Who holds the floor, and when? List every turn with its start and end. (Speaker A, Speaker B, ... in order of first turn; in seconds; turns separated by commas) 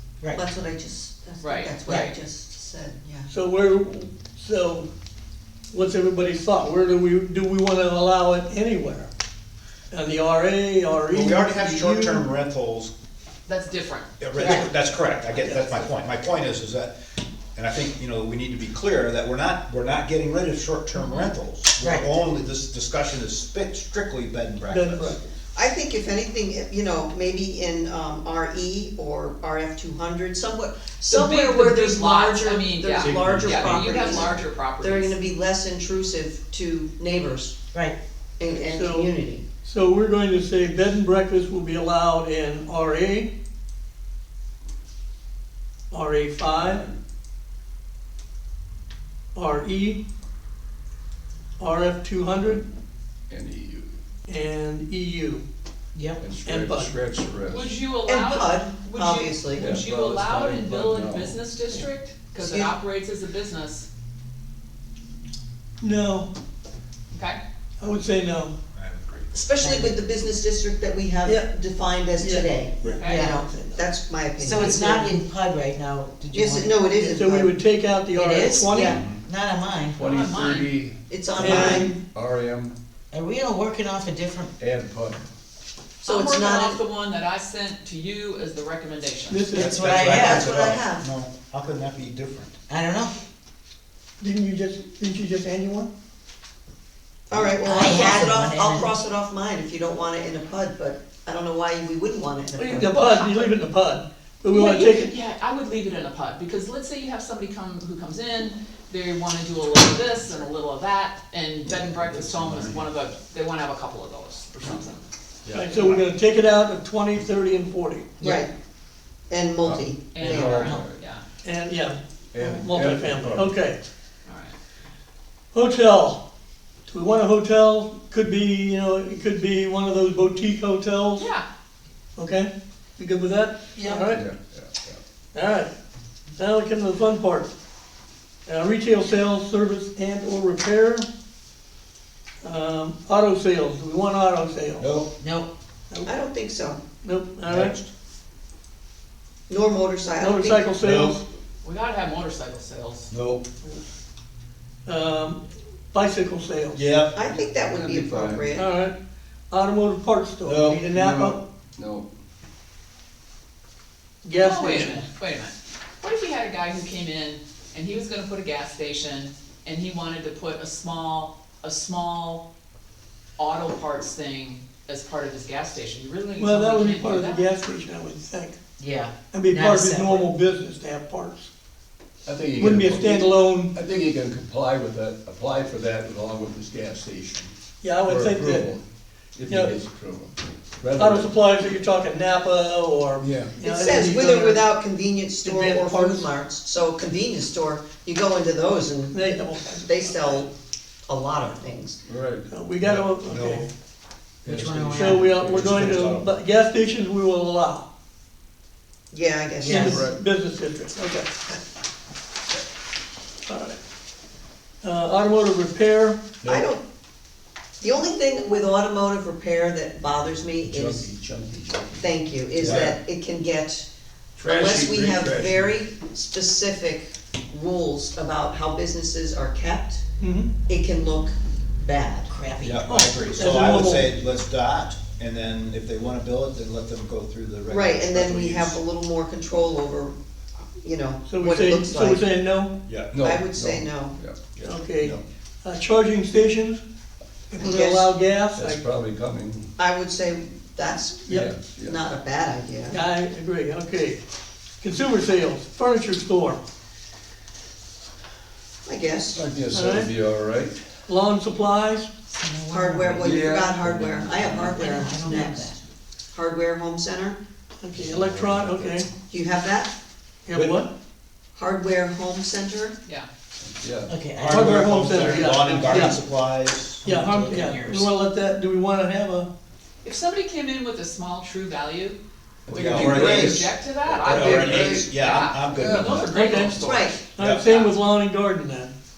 Speaker A: 0.3-3.3, Speaker B: 1.4-2.1, Speaker C: 3.3-4.9, Speaker C: 5.7-9.1, Speaker C: 9.9-12.3, Speaker D: 11.1-12.9, Speaker B: 13.5-14.1, Speaker D: 14.2-16.9, Speaker E: 14.4-14.7, Speaker B: 15.4-15.8, Speaker D: 17.6-25.2, Speaker B: 20.9-21.3, Speaker E: 21.8-22.1, Speaker C: 24.7-25.2, Speaker A: 25.6-37.6, Speaker B: 31.1-35.2, Speaker F: 33.0-34.1, Speaker A: 38.4-39.4, Speaker C: 38.5-39.1, Speaker C: 39.6-43.3, Speaker C: 45.9-46.8, Speaker F: 46.5-47.0, Speaker C: 49.4-50.0, Speaker C: 51.6-52.6, Speaker F: 53.3-54.0, Speaker C: 54.3-55.5, Speaker E: 56.0-56.2, Speaker F: 56.2-57.7, Speaker C: 56.5-56.9, Speaker B: 57.5-63.9, Speaker A: 58.1-59.8, Speaker F: 59.5-61.4, Speaker A: 62.4-62.7, Speaker C: 65.8-66.3, Speaker B: 67.1-67.4, Speaker C: 67.8-68.5, Speaker D: 68.7-69.4, Speaker A: 69.3-75.2, Speaker E: 69.6-70.0, Speaker C: 71.2-71.5, Speaker C: 72.2-73.9, Speaker B: 73.0-73.3, Speaker E: 73.0-73.4, Speaker E: 74.4-76.8, Speaker A: 76.3-77.6, Speaker C: 77.0-79.0, Speaker E: 78.1-80.0, Speaker A: 78.7-79.0, Speaker D: 78.9-79.2, Speaker F: 80.0-82.8, Speaker B: 80.0-80.7, Speaker A: 81.1-81.9, Speaker C: 81.3-82.0, Speaker E: 83.1-84.5, Speaker F: 84.6-85.2, Speaker B: 86.0-89.6, Speaker A: 86.0-86.8, Speaker C: 89.3-90.2, Speaker E: 89.6-90.5, Speaker D: 89.6-92.5, Speaker A: 90.0-91.1, Speaker E: 92.7-93.1, Speaker C: 94.2-95.9, Speaker A: 97.3-103.2, Speaker D: 97.3-97.6, Speaker E: 97.6-98.9, Speaker C: 102.6-105.1, Speaker B: 102.8-103.5, Speaker B: 104.5-115.0, Speaker D: 111.7-112.8, Speaker F: 112.0-112.3, Speaker F: 115.5-116.0, Speaker C: 115.5-118.1, Speaker E: 118.2-118.5, Speaker A: 118.2-118.5, Speaker A: 119.3-120.8, Speaker F: 119.6-121.0, Speaker B: 120.1-121.2, Speaker C: 121.4-123.8, Speaker F: 122.3-123.6, Speaker B: 124.3-124.5, Speaker C: 125.5-126.2, Speaker C: 126.9-131.3, Speaker B: 131.2-131.4, Speaker C: 132.2-134.2, Speaker F: 134.1-135.0, Speaker C: 135.3-135.7, Speaker C: 136.4-137.5, Speaker C: 138.5-141.1, Speaker C: 142.4-144.9, Speaker D: 144.8-145.1, Speaker E: 145.2-145.5, Speaker A: 146.1-146.8, Speaker C: 147.0-147.8, Speaker D: 147.5-147.9, Speaker A: 149.5-150.8, Speaker C: 150.2-151.2, Speaker D: 150.8-151.2, Speaker B: 151.6-153.1, Speaker D: 153.1-153.5, Speaker C: 154.9-155.4, Speaker C: 155.9-156.8, Speaker D: 156.7-157.2, Speaker A: 157.1-158.8, Speaker F: 157.2-158.6, Speaker C: 158.5-158.9, Speaker C: 159.5-161.4, Speaker F: 160.4-162.1, Speaker C: 164.2-165.1, Speaker B: 164.4-172.5, Speaker B: 173.4-177.4, Speaker C: 176.4-178.6, Speaker E: 178.8-180.3, Speaker C: 179.3-181.5, Speaker F: 182.3-187.5, Speaker C: 182.6-183.8, Speaker C: 187.8-188.7, Speaker F: 188.1-188.8, Speaker F: 189.4-191.3, Speaker C: 189.5-189.8, Speaker C: 190.9-194.7, Speaker F: 193.2-193.6, Speaker A: 193.6-200.5, Speaker C: 195.4-196.3, Speaker C: 199.1-200.4, Speaker A: 201.1-202.0, Speaker F: 202.1-203.2, Speaker C: 202.5-203.7, Speaker D: 202.8-203.7, Speaker F: 204.4-206.1, Speaker E: 204.4-205.4, Speaker C: 204.9-207.9, Speaker D: 205.6-206.3, Speaker A: 209.1-210.0, Speaker E: 209.6-210.0, Speaker C: 209.7-211.6, Speaker F: 209.8-210.2, Speaker C: 213.5-213.8, Speaker C: 214.8-216.3, Speaker F: 216.4-216.7, Speaker A: 216.4-216.8, Speaker A: 217.8-221.1, Speaker F: 220.7-223.0, Speaker A: 222.0-223.9, Speaker F: 224.4-225.8, Speaker A: 224.4-230.0, Speaker C: 230.2-230.5, Speaker A: 230.7-232.3, Speaker E: 232.3-232.8, Speaker D: 232.6-238.3, Speaker C: 232.9-234.1, Speaker A: 237.7-240.2, Speaker F: 238.2-238.8, Speaker A: 240.8-242.2, Speaker C: 241.2-242.8, Speaker D: 242.8-243.2, Speaker F: 243.1-244.5, Speaker A: 243.2-244.2, Speaker D: 244.4-245.2, Speaker C: 244.6-246.8, Speaker C: 247.5-248.8, Speaker A: 247.6-248.1, Speaker F: 248.6-249.8, Speaker A: 249.8-253.0, Speaker C: 251.3-251.6, Speaker F: 251.3-252.0, Speaker C: 252.9-254.2, Speaker C: 254.8-256.6, Speaker A: 258.9-259.4, Speaker F: 259.3-260.8, Speaker C: 259.7-260.1, Speaker C: 261.1-262.1, Speaker E: 262.3-263.3, Speaker A: 262.7-265.7, Speaker F: 263.2-264.8, Speaker E: 264.6-265.8, Speaker A: 266.3-267.4, Speaker C: 267.8-269.1, Speaker F: 267.9-269.1, Speaker A: 269.3-269.9, Speaker C: 270.5-270.9, Speaker D: 270.5-270.8, Speaker A: 271.6-273.0, Speaker F: 273.6-274.1, Speaker E: 274.1-275.7, Speaker D: 274.4-277.1, Speaker C: 274.5-276.2, Speaker E: 277.0-278.1, Speaker C: 277.0-279.5, Speaker B: 280.0-282.2, Speaker F: 282.7-285.0, Speaker B: 282.7-288.0, Speaker D: 282.8-283.8, Speaker A: 284.2-285.0, Speaker D: 284.3-286.4, Speaker F: 285.7-286.8, Speaker C: 286.3-288.9, Speaker A: 286.8-287.3